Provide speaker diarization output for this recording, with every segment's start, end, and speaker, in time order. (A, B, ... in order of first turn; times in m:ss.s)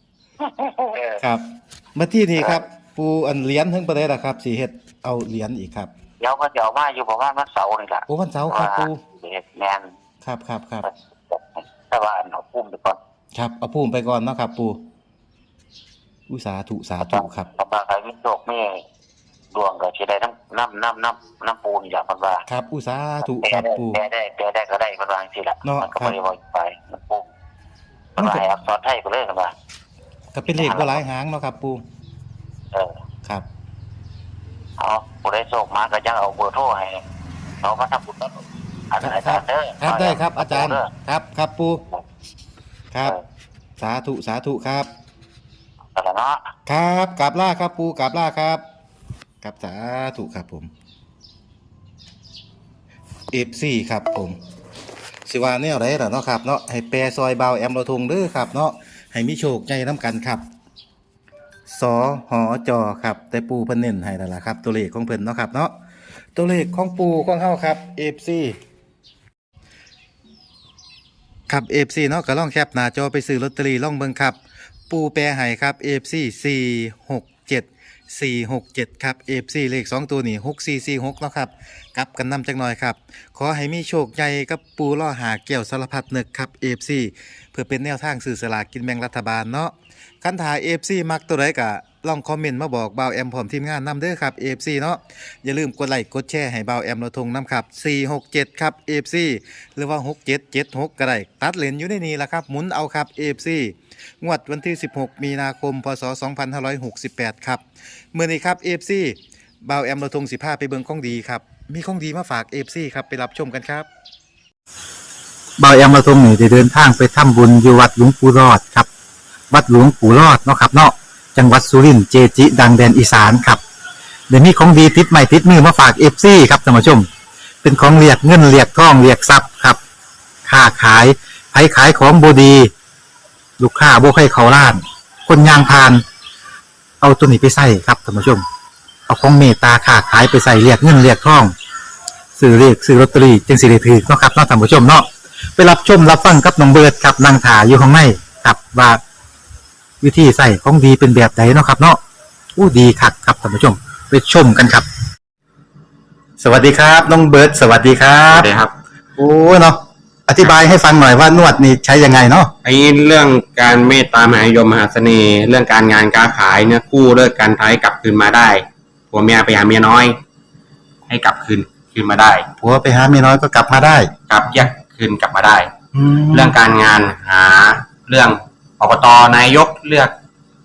0:00.4-0:01.2 A
0:01.2-0:05.9 B
0:06.2-0:09.9 A
0:08.1-0:09.0 B
0:10.2-0:10.9 B
0:10.8-0:13.0 A
0:13.3-0:14.8 B
0:16.3-0:17.5 B
0:17.0-0:18.8 A
0:19.5-0:22.4 A
0:22.5-0:24.0 B
0:23.2-0:27.3 A
0:25.6-0:26.2 B
0:28.2-0:29.5 A
0:28.2-0:28.4 B
0:30.3-0:31.8 B
0:30.5-0:31.0 A
0:32.7-0:33.0 A
0:34.8-0:37.0 A
0:37.6-0:40.9 A
0:39.0-0:41.8 B
0:42.9-0:43.2 B
0:43.8-0:44.9 B
0:45.9-0:46.5 A
0:46.7-0:48.6 B
0:49.4-0:50.7 B
0:53.3-0:54.4 B
0:55.2-1:00.4 B
1:01.7-1:05.7 B
1:06.3-1:08.6 B
1:11.5-1:14.4 B
1:14.9-1:53.9 B
1:55.6-1:58.9 B
1:59.5-2:03.6 B
2:04.3-2:07.1 B
2:07.6-2:09.8 B
2:10.4-2:12.7 B
2:13.6-2:16.0 B
2:17.0-2:18.4 B
2:19.1-2:21.5 B
2:22.4-2:29.0 B
2:30.0-2:32.0 B
2:32.6-2:34.8 B
2:36.4-2:38.5 B
2:38.3-2:38.7 C
2:39.2-2:42.5 B
2:42.6-2:50.2 C
2:51.1-2:52.5 C
2:52.6-2:54.1 B
2:54.3-2:55.7 C
2:55.9-2:56.5 B
2:56.3-3:00.1 C